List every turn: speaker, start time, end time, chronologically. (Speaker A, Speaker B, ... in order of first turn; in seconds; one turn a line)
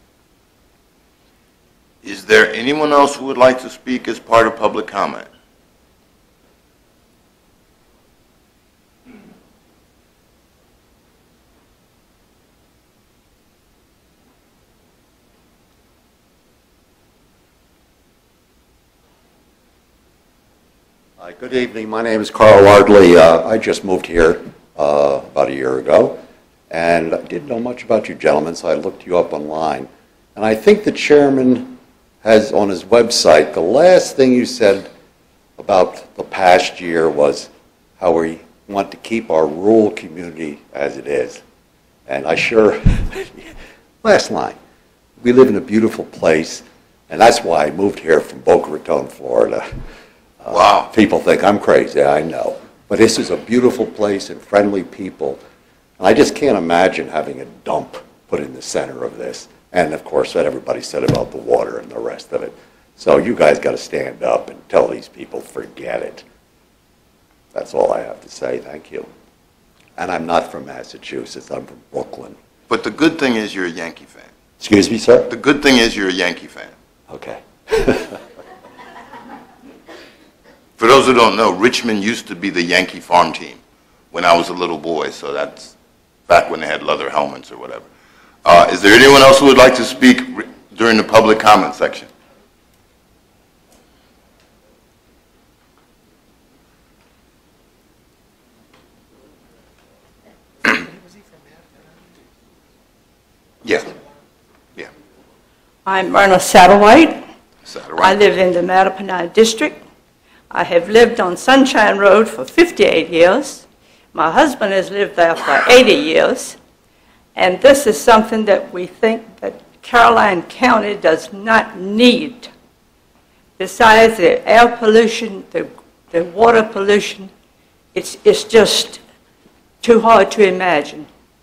Speaker A: 2.0-5.3
Speaker B: 21.2-26.2
Speaker B: 26.7-34.9
Speaker B: 35.6-41.4
Speaker B: 42.1-43.5
Speaker B: 44.0-44.5
Speaker B: 45.2-49.6
Speaker B: 50.4-55.4
Speaker A: 50.5-50.9
Speaker B: 56.0-66.2
Speaker B: 67.5-69.1
Speaker B: 70.0-72.3
Speaker A: 72.7-74.3
Speaker B: 74.6-75.3
Speaker A: 75.3-76.7
Speaker B: 77.1-78.1
Speaker A: 80.8-83.6
Speaker A: 84.1-85.7
Speaker A: 86.3-87.9
Speaker A: 88.4-92.1
Speaker A: 103.6-103.9
Speaker C: 105.8-107.2
Speaker A: 107.7-108.2
Speaker C: 108.0-109.8
Speaker C: 110.5-116.6
Speaker C: 117.3-122.5
Speaker C: 123.6-127.3
Speaker C: 127.9-129.0
Speaker C: 129.8-131.1